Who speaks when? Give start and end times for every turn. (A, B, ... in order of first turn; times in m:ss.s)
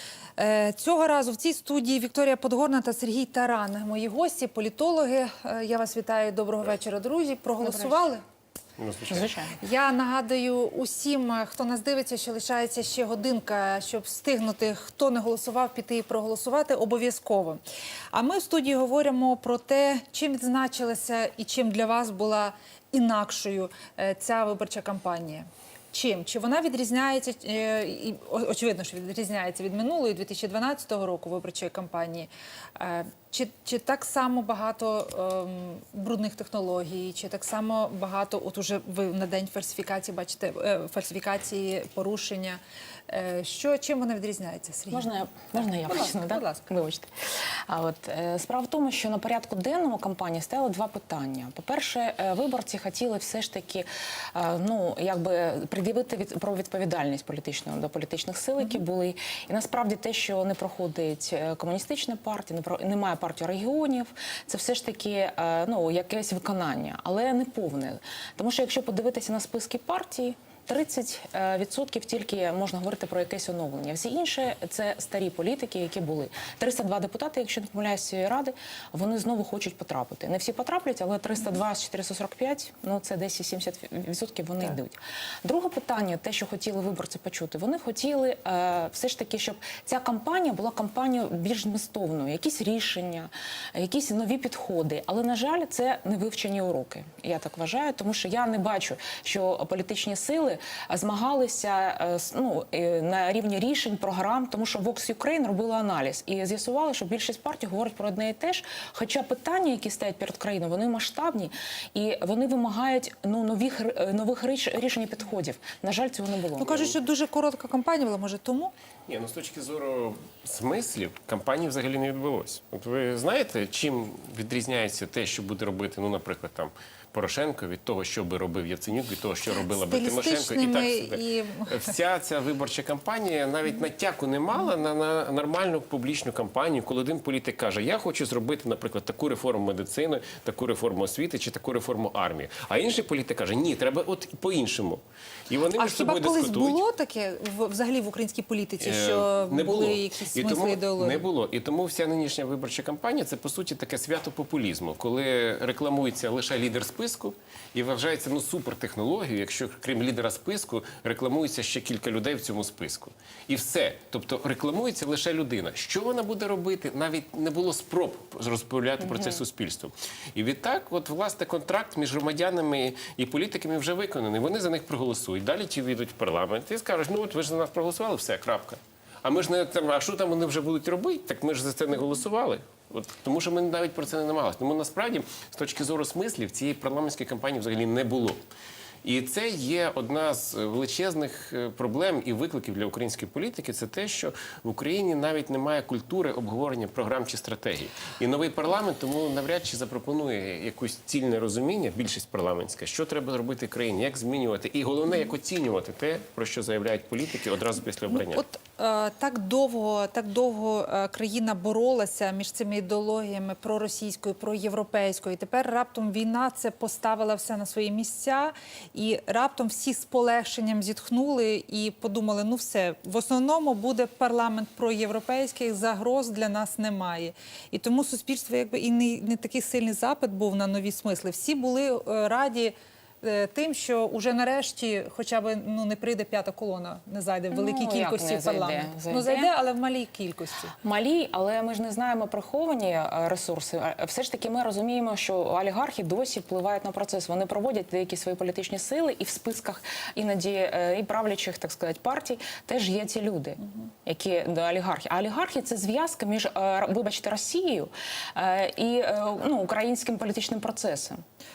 0:00.4-0:08.2 A
0:07.6-0:08.1 B
0:08.8-0:09.3 C
0:09.1-0:09.5 B
0:09.6-0:46.7 A
0:44.9-0:47.1 B
0:47.6-1:56.9 B
1:56.6-1:58.7 A
1:59.1-2:26.8 C
2:09.6-2:11.9 A
2:25.7-2:31.2 A
2:28.8-3:08.4 C
2:49.0-2:49.4 B
3:09.0-3:28.4 C
3:28.1-4:00.7 A
3:57.5-3:59.5 B
4:00.8-4:21.2 B